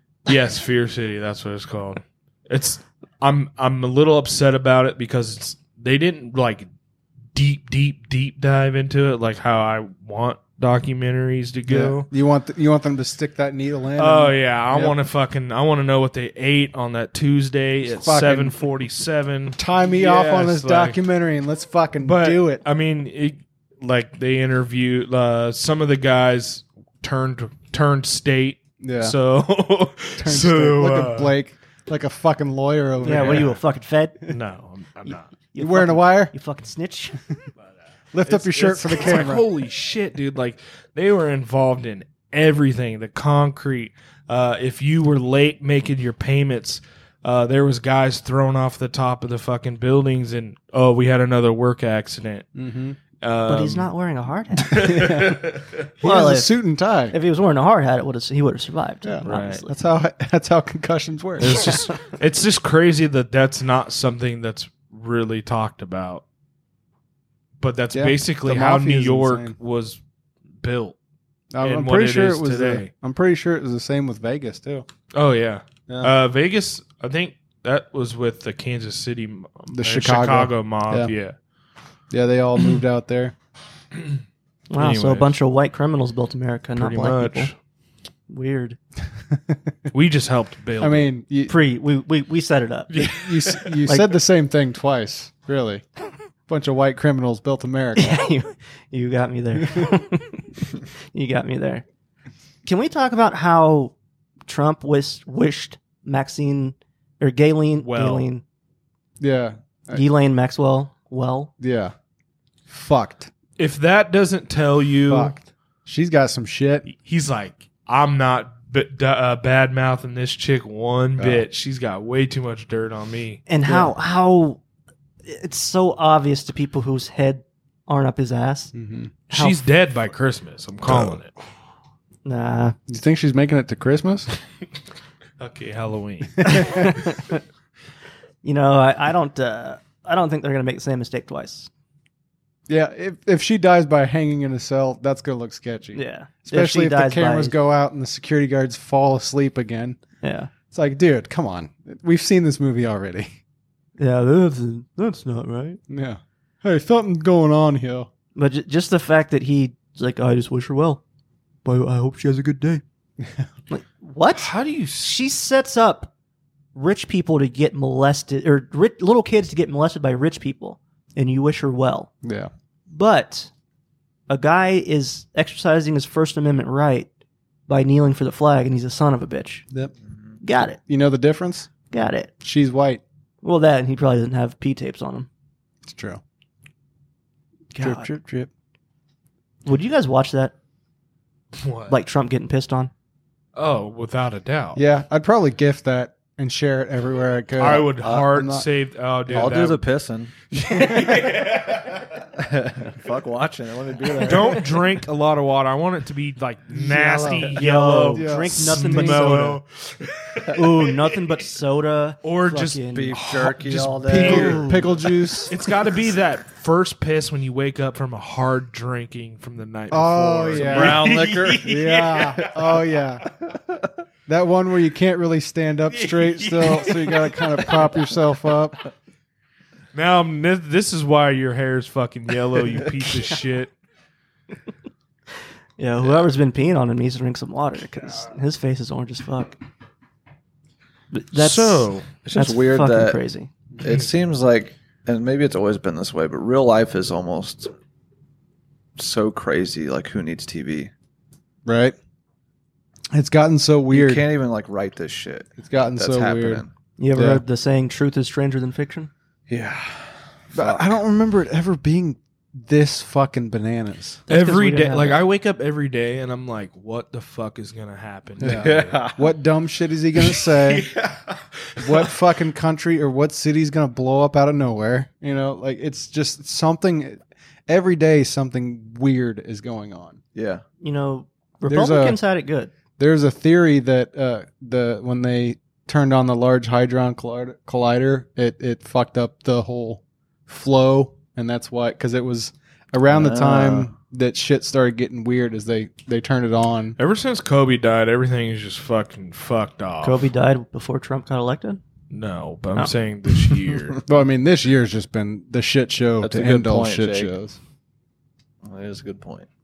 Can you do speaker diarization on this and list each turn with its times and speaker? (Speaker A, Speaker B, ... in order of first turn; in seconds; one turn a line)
Speaker A: 0.2-6.7
Speaker A: 7.3-12.1
Speaker B: 11.7-14.9
Speaker A: 14.0-21.0
Speaker B: 17.9-18.6
Speaker B: 19.6-22.6
Speaker A: 22.0-31.3
Speaker B: 28.8-29.1
Speaker B: 30.2-33.5
Speaker C: 33.0-34.2
Speaker A: 33.0-33.5
Speaker A: 34.3-35.3
Speaker C: 35.5-37.2
Speaker B: 35.6-36.3
Speaker B: 38.1-39.5
Speaker A: 38.3-52.5
Speaker B: 52.5-53.0
Speaker A: 53.2-53.9
Speaker C: 53.5-55.3
Speaker A: 54.6-55.9
Speaker B: 54.8-55.5
Speaker B: 56.0-57.1
Speaker C: 56.0-56.6
Speaker C: 57.1-59.7
Speaker B: 59.0-61.8
Speaker A: 59.2-59.6
Speaker A: 61.4-66.2
Speaker A: 67.6-70.0
Speaker B: 67.9-69.5
Speaker A: 70.6-71.0
Speaker B: 71.5-74.8
Speaker A: 71.6-72.9
Speaker A: 75.1-81.3
Speaker B: 79.7-81.1
Speaker B: 82.1-83.3
Speaker C: 84.7-87.5
Speaker A: 84.8-85.3
Speaker A: 86.8-87.5
Speaker C: 88.3-88.8
Speaker B: 89.3-89.8
Speaker A: 89.9-91.1
Speaker B: 90.8-91.5
Speaker C: 91.5-93.2
Speaker A: 92.9-93.8
Speaker B: 93.0-95.8
Speaker C: 93.8-94.1
Speaker B: 96.5-98.2
Speaker C: 98.0-100.5
Speaker C: 101.1-101.8
Speaker C: 102.6-103.9
Speaker C: 104.5-108.4
Speaker A: 107.8-108.3
Speaker B: 109.2-110.0
Speaker C: 109.9-111.5
Speaker B: 111.6-111.9
Speaker B: 112.7-113.3
Speaker A: 113.6-115.3
Speaker B: 115.1-116.9
Speaker A: 116.9-123.4
Speaker B: 121.2-121.4
Speaker C: 123.5-124.6
Speaker B: 123.6-123.9
Speaker C: 125.2-128.7
Speaker B: 128.7-129.1
Speaker A: 129.3-131.3
Speaker C: 129.3-129.6
Speaker B: 130.9-131.2
Speaker C: 132.2-132.8
Speaker B: 132.9-134.3
Speaker A: 135.4-136.9
Speaker B: 136.4-136.9
Speaker C: 136.4-137.4
Speaker C: 138.4-141.7
Speaker B: 142.7-150.0
Speaker C: 145.9-147.6
Speaker C: 150.2-150.5
Speaker B: 150.7-153.3
Speaker C: 154.0-155.8
Speaker B: 155.9-158.1
Speaker C: 158.3-161.0
Speaker C: 161.6-162.8
Speaker B: 163.2-163.5
Speaker C: 163.7-166.1
Speaker A: 164.3-165.1
Speaker C: 166.7-172.1
Speaker B: 172.2-172.5
Speaker C: 172.9-173.5
Speaker C: 174.3-177.1
Speaker C: 177.7-179.6
Speaker C: 180.4-180.8
Speaker B: 180.9-181.7
Speaker C: 181.9-182.3
Speaker B: 182.4-183.0
Speaker C: 183.4-185.3
Speaker B: 185.8-186.2
Speaker C: 187.7-188.1
Speaker B: 187.8-188.5
Speaker C: 189.6-190.5
Speaker A: 191.6-191.9
Speaker C: 191.9-192.9
Speaker A: 193.6-194.8
Speaker B: 194.8-198.7
Speaker A: 197.6-199.8
Speaker D: 198.0-198.3
Speaker D: 199.3-200.3
Speaker A: 200.5-202.0
Speaker B: 200.6-201.4
Speaker D: 202.3-204.8
Speaker A: 204.2-211.1
Speaker B: 206.7-207.6
Speaker C: 207.3-209.6
Speaker B: 208.1-209.4
Speaker C: 210.5-213.2
Speaker A: 212.2-214.6
Speaker D: 212.9-215.3
Speaker B: 214.0-215.6
Speaker C: 214.1-214.9
Speaker A: 215.5-222.7
Speaker B: 219.9-221.1
Speaker D: 220.5-222.5
Speaker B: 221.6-223.3
Speaker B: 224.3-228.8
Speaker A: 225.9-227.9
Speaker A: 229.9-233.7
Speaker C: 235.8-239.6
Speaker C: 241.1-243.5
Speaker A: 241.3-242.1
Speaker D: 242.2-243.2
Speaker D: 243.8-247.7
Speaker D: 249.0-250.9
Speaker B: 251.7-251.9
Speaker B: 253.1-254.2
Speaker D: 253.9-256.7
Speaker B: 255.6-257.4
Speaker C: 257.0-259.1
Speaker D: 259.5-260.9
Speaker B: 260.5-264.2
Speaker C: 264.3-265.2
Speaker A: 264.3-269.0
Speaker B: 268.4-270.9
Speaker D: 268.4-269.3
Speaker A: 270.5-272.0
Speaker B: 271.8-280.2
Speaker D: 280.3-280.6
Speaker C: 280.8-282.7
Speaker B: 281.7-282.2
Speaker B: 283.0-297.0
Speaker D: 293.1-293.9
Speaker A: 297.0-300.2
Speaker C: 300.0-301.8
Speaker A: 302.1-304.0
Speaker B: 304.1-307.6
Speaker D: 306.2-307.3
Speaker D: 308.6-309.5